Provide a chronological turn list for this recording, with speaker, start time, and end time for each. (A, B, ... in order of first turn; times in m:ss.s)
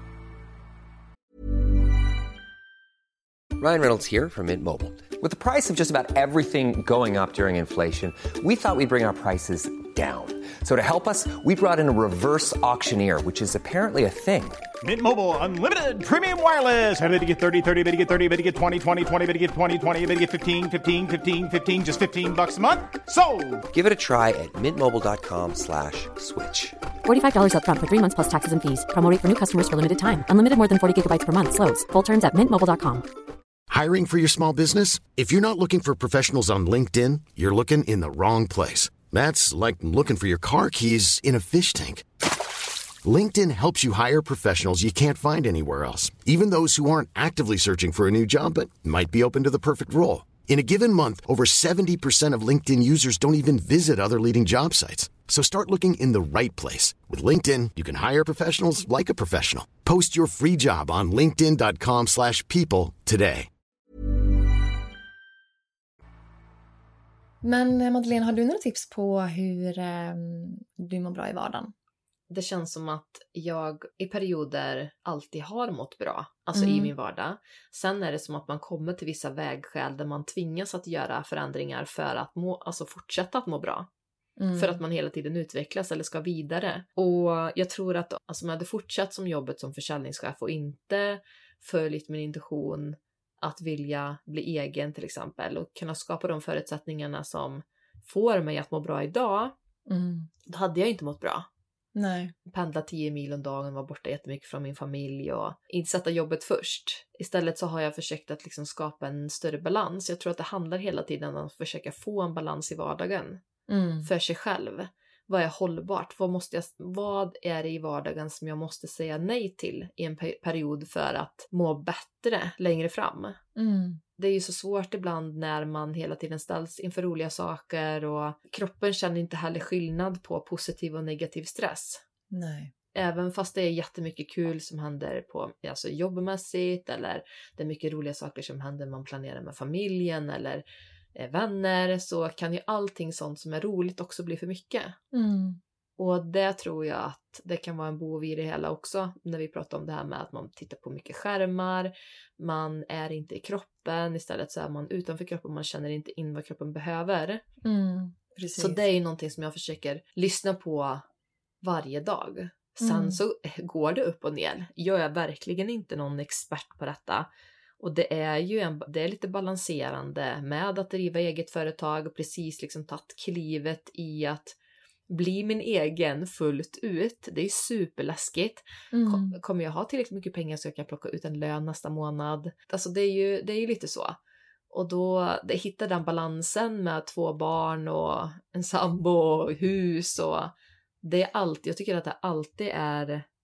0:03.6-0:14.7 A
0:14.8-0:23.6 B
0:23.7-0:26.8 A
0:27.0-0:33.1 C
0:33.7-0:42.1 D
0:43.0-1:03.5 D
1:07.4-1:11.7 E
1:12.3-1:23.9 F
1:16.6-1:16.9 E
1:24.4-1:24.8 E
1:24.5-1:39.6 F
1:39.9-1:40.3 E
1:40.5-1:41.5 F
1:42.0-1:42.3 E
1:42.5-1:53.4 F
1:53.7-1:54.1 E
1:54.0-2:03.4 F
2:03.6-2:04.0 E
2:04.2-2:12.0 F
2:12.3-2:12.7 E
2:13.0-2:20.6 F
2:21.2-2:25.0 F
2:25.1-2:25.6 E
2:26.0-2:37.4 F
2:37.6-2:38.8 E
2:38.6-2:41.0 F
2:41.6-2:47.3 F
2:42.8-2:43.2 E
2:47.8-2:54.6 F
2:55.1-3:04.2 F
2:58.9-2:59.4 E
3:04.7-3:13.3 F